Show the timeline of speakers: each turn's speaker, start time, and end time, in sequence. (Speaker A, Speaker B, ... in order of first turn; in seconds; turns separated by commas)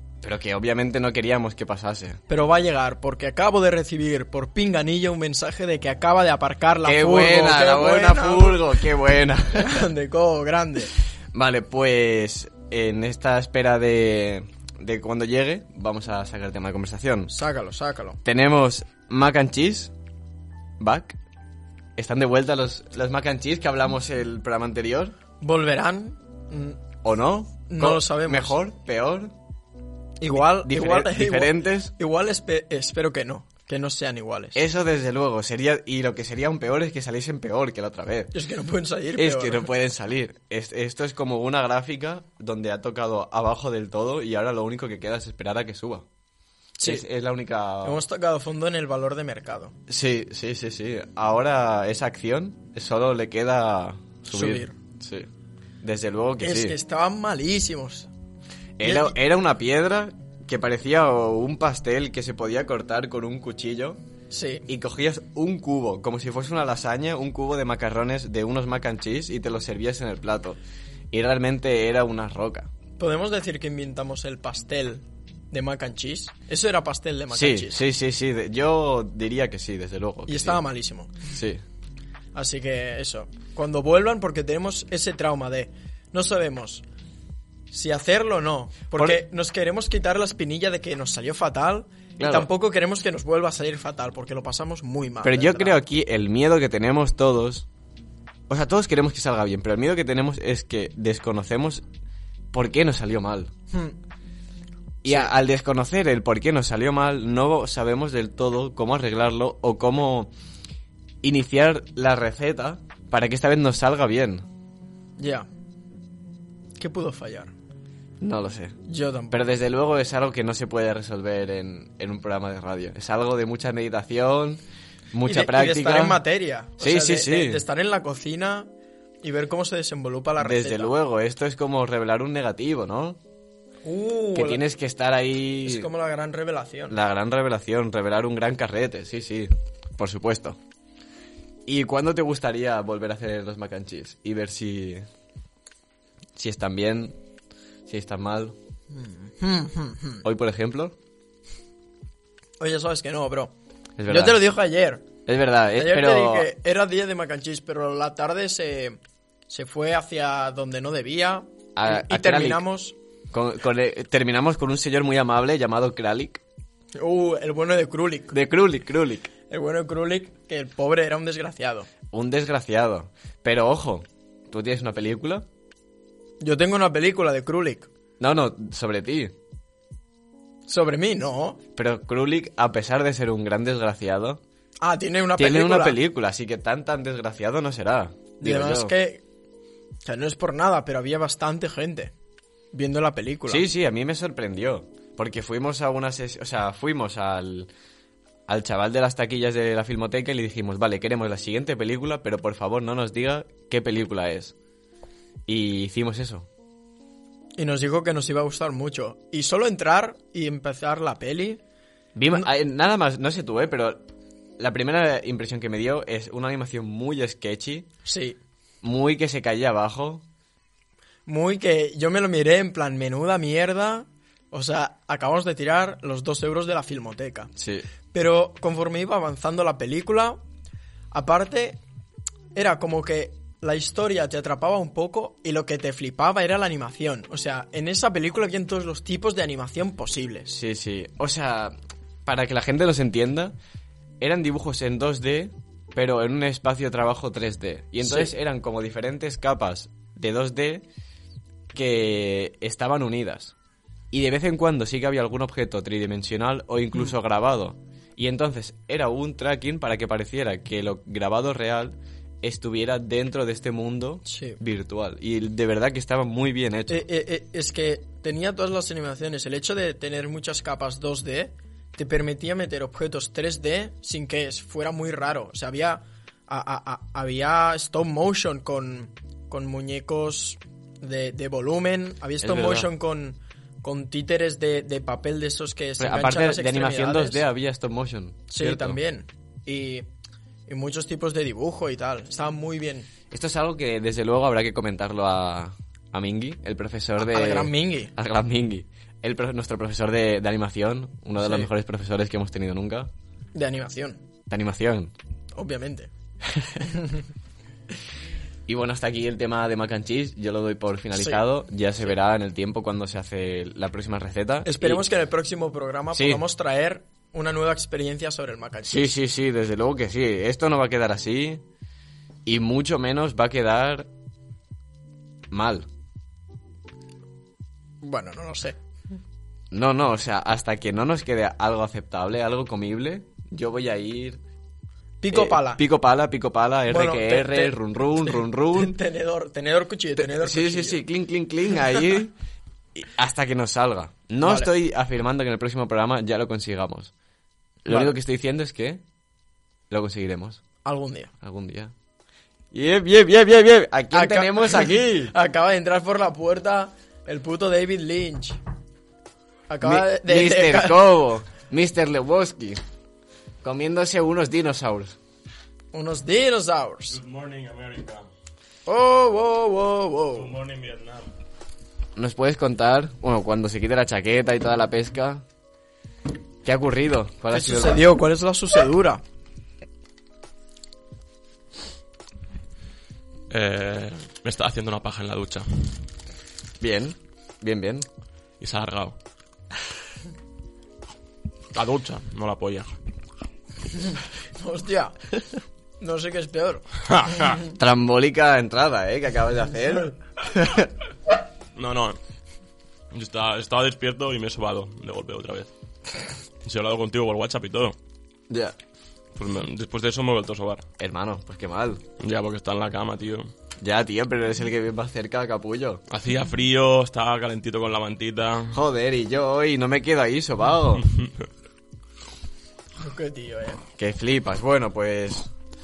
Speaker A: 0.2-2.2, Speaker B: 2.3-8.7, Speaker A: 6.8-9.9, Speaker B: 9.6-10.9, Speaker A: 11.3-17.3, Speaker B: 17.3-18.2, Speaker A: 18.2-19.9, Speaker A: 20.8-21.2, Speaker A: 22.0-25.1, Speaker B: 25.4-26.8, Speaker A: 27.0-29.3, Speaker B: 27.7-28.6, Speaker B: 30.2-34.6, Speaker A: 30.3-31.9, Speaker A: 34.5-38.3, Speaker B: 38.3-39.7, Speaker A: 39.2-46.1, Speaker B: 46.8-47.0, Speaker A: 46.8-48.0, Speaker B: 47.8-49.8, Speaker A: 49.9-55.3, Speaker B: 54.3-54.8, Speaker A: 55.8-56.8, Speaker B: 56.4-58.1, Speaker A: 58.8-64.0, Speaker B: 58.8-59.2, Speaker B: 64.3-64.7, Speaker A: 64.7-70.6, Speaker A: 71.1-72.7, Speaker B: 73.0-77.8, Speaker A: 77.3-80.6, Speaker B: 80.3-81.2, Speaker A: 81.3-81.6, Speaker B: 82.3-86.8, Speaker B: 87.7-95.8, Speaker A: 88.9-89.2, Speaker A: 92.2-92.5, Speaker A: 95.2-97.7, Speaker A: 98.5-101.8, Speaker A: 102.5-103.5, Speaker A: 105.0-110.3, Speaker B: 105.1-105.3, Speaker A: 111.2-114.5, Speaker B: 115.2-115.5, Speaker B: 116.8-117.5, Speaker A: 118.2-118.8, Speaker B: 118.9-119.4, Speaker A: 119.3-124.6, Speaker A: 125.1-126.2, Speaker B: 125.3-128.7, Speaker A: 126.8-127.6, Speaker B: 129.2-130.9, Speaker A: 130.4-133.2, Speaker B: 133.8-134.6, Speaker A: 134.3-135.9, Speaker B: 135.7-137.0, Speaker A: 136.9-140.6, Speaker A: 141.7-145.1, Speaker A: 146.4-147.2, Speaker A: 147.9-148.6, Speaker B: 148.9-150.2, Speaker A: 150.2-150.9, Speaker B: 152.6-153.5, Speaker A: 154.0-154.4, Speaker B: 154.1-155.1, Speaker A: 155.3-156.5, Speaker B: 155.8-159.0, Speaker B: 159.5-162.9, Speaker A: 161.8-162.6, Speaker A: 163.3-166.4, Speaker B: 167.0-168.4, Speaker A: 168.3-169.3, Speaker B: 169.5-171.9, Speaker A: 172.1-175.5, Speaker B: 176.4-177.9, Speaker A: 178.2-179.3, Speaker B: 180.7-181.6, Speaker A: 181.8-184.4, Speaker B: 184.8-186.0, Speaker A: 185.4-188.9, Speaker B: 188.4-189.2, Speaker B: 190.1-192.1, Speaker B: 192.7-193.7, Speaker A: 193.5-197.7, Speaker A: 198.5-204.5, Speaker A: 205.5-206.5, Speaker B: 207.6-211.6, Speaker A: 212.2-214.1, Speaker A: 214.6-217.9, Speaker B: 218.1-218.4, Speaker A: 218.8-220.2, Speaker B: 221.3-227.5, Speaker A: 227.6-227.9, Speaker B: 228.1-230.4, Speaker B: 231.1-231.8, Speaker B: 232.5-240.5, Speaker A: 240.5-243.6, Speaker A: 244.2-250.8, Speaker B: 248.0-248.3, Speaker A: 251.7-253.6, Speaker A: 254.1-267.0, Speaker B: 264.3-264.6, Speaker B: 266.9-287.4, Speaker A: 282.4-282.9, Speaker A: 286.0-289.0, Speaker B: 288.5-290.1, Speaker B: 290.7-293.1, Speaker A: 293.3-303.1, Speaker B: 297.2-298.1, Speaker B: 301.4-301.7, Speaker B: 303.6-304.2, Speaker A: 304.5-305.1, Speaker B: 305.5-306.1, Speaker A: 306.5-306.8, Speaker B: 306.9-307.2, Speaker A: 308.7-315.0, Speaker B: 311.2-311.4, Speaker B: 314.6-319.1, Speaker A: 316.1-316.4, Speaker A: 318.9-321.6, Speaker A: 322.4-324.1, Speaker A: 325.5-325.9, Speaker B: 328.0-328.8, Speaker A: 329.7-334.4, Speaker B: 335.2-335.8, Speaker A: 335.3-339.0, Speaker B: 336.9-341.0, Speaker A: 340.2-342.4, Speaker A: 342.9-347.1, Speaker B: 344.4-344.7, Speaker A: 347.9-349.0, Speaker B: 347.9-348.1, Speaker A: 349.9-350.6, Speaker B: 350.9-351.3, Speaker A: 351.4-351.9, Speaker A: 352.7-355.3, Speaker B: 354.1-358.6, Speaker B: 359.7-361.1, Speaker A: 359.8-362.8, Speaker A: 363.6-365.2, Speaker B: 365.9-367.2, Speaker C: 367.1-368.3, Speaker B: 368.9-370.6, Speaker C: 370.3-371.3, Speaker A: 372.2-375.4, Speaker A: 376.6-378.0, Speaker B: 377.5-379.2, Speaker C: 383.5-385.9, Speaker A: 386.8-388.1, Speaker C: 388.6-389.1, Speaker C: 391.7-392.9, Speaker B: 394.6-395.2, Speaker B: 396.0-397.5, Speaker C: 397.1-397.6, Speaker A: 397.8-400.9, Speaker C: 401.8-402.2, Speaker C: 403.1-405.7, Speaker C: 406.6-408.0, Speaker A: 408.5-408.8, Speaker C: 409.4-410.9, Speaker A: 411.0-412.0, Speaker C: 412.2-413.5, Speaker A: 413.8-416.0, Speaker C: 416.1-418.8, Speaker A: 418.7-421.1, Speaker B: 423.0-423.8, Speaker A: 424.0-425.5